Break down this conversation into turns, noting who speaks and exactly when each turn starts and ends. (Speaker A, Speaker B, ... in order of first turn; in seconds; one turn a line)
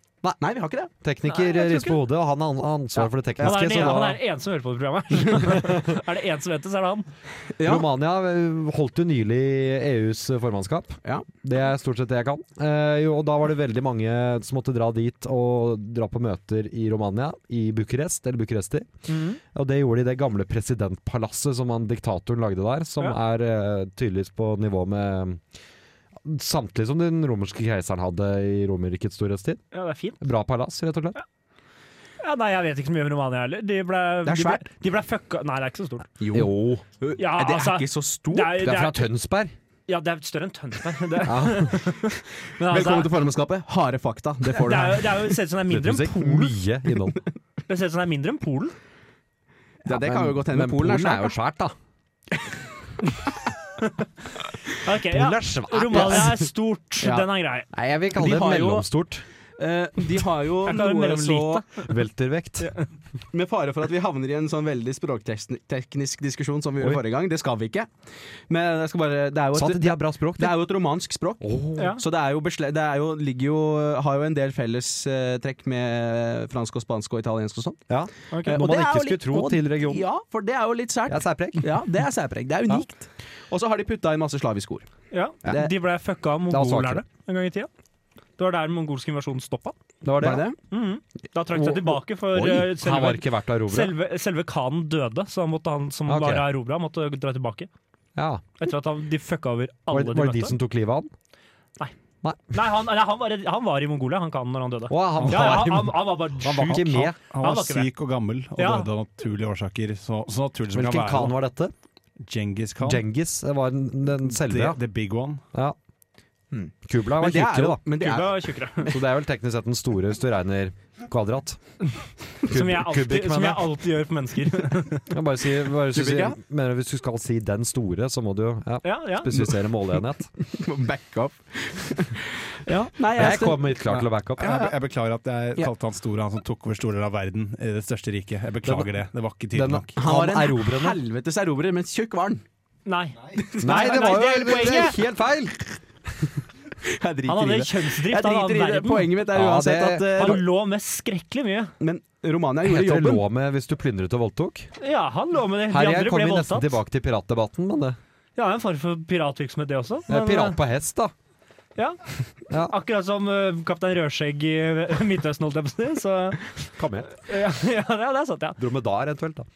Speaker A: 0.4-0.9
Speaker B: 1.0-4.2
Speaker C: 1.3-2.0
Speaker A: 3.0-3.6
Speaker C: 3.4-7.1
Speaker B: 5.4-5.9
Speaker A: 7.5-7.8
Speaker B: 7.6-18.9
Speaker C: 19.1-19.4
Speaker B: 19.5-25.4
Speaker B: 26.2-29.6
Speaker C: 29.7-30.2
Speaker B: 30.2-31.2
Speaker C: 32.2-36.1
Speaker A: 34.2-34.6
Speaker A: 36.2-38.6
Speaker B: 36.3-36.8
Speaker C: 37.1-39.1
Speaker B: 38.6-39.5
Speaker C: 39.9-43.1
Speaker B: 41.2-41.8
Speaker A: 42.7-45.3
Speaker C: 44.5-46.6
Speaker B: 45.7-47.2
Speaker C: 47.7-48.7
Speaker B: 49.8-51.7
Speaker A: 49.9-51.3
Speaker C: 53.8-54.0
Speaker C: 54.8-57.7
Speaker B: 54.9-56.4
Speaker A: 55.9-56.3
Speaker A: 57.0-57.3
Speaker B: 57.7-59.2
Speaker A: 58.1-58.9
Speaker A: 59.6-61.6
Speaker C: 60.6-61.9
Speaker B: 61.8-62.7
Speaker C: 62.6-62.9
Speaker A: 63.3-67.9
Speaker A: 68.5-77.8
Speaker B: 69.5-70.6
Speaker B: 71.4-72.0
Speaker C: 71.8-72.0
Speaker B: 77.9-80.0
Speaker C: 78.3-78.6
Speaker A: 78.4-84.9
Speaker B: 81.1-81.7
Speaker C: 85.1-87.7
Speaker A: 85.5-85.7
Speaker B: 86.5-87.0
Speaker C: 88.4-89.7
Speaker B: 90.0-90.4
Speaker A: 90.2-90.6
Speaker C: 90.7-97.7
Speaker B: 91.5-93.9
Speaker B: 96.1-96.5
Speaker B: 98.2-98.4
Speaker C: 98.6-100.6
Speaker B: 99.9-101.1
Speaker B: 102.2-102.5
Speaker C: 102.5-107.9
Speaker B: 104.9-107.2
Speaker D: 105.2-105.7
Speaker D: 107.3-111.3
Speaker C: 108.6-108.9
Speaker B: 110.7-111.7
Speaker D: 112.2-113.0
Speaker B: 112.8-114.8
Speaker D: 114.2-115.4
Speaker A: 116.5-118.9
Speaker B: 116.8-117.8
Speaker C: 117.9-118.9
Speaker B: 118.9-121.6
Speaker B: 122.4-123.7
Speaker C: 122.4-125.1
Speaker B: 125.1-130.3
Speaker A: 125.9-126.4
Speaker C: 128.8-129.3
Speaker A: 129.3-129.6
Speaker A: 130.4-134.7
Speaker B: 133.1-134.6
Speaker D: 133.9-140.0
Speaker B: 138.6-138.9
Speaker B: 139.5-141.0
Speaker A: 140.0-142.4
Speaker C: 142.8-145.0
Speaker A: 143.3-144.0
Speaker B: 143.6-145.8
Speaker A: 146.8-150.4
Speaker C: 147.3-149.1
Speaker B: 149.3-150.4
Speaker C: 150.1-151.7
Speaker A: 151.8-153.2
Speaker B: 152.6-154.7
Speaker C: 154.8-156.8
Speaker B: 155.7-158.0
Speaker C: 158.3-160.6
Speaker B: 160.1-161.1
Speaker B: 162.5-162.7
Speaker C: 162.6-166.5
Speaker B: 166.8-167.1
Speaker C: 167.1-168.6
Speaker B: 168.6-169.5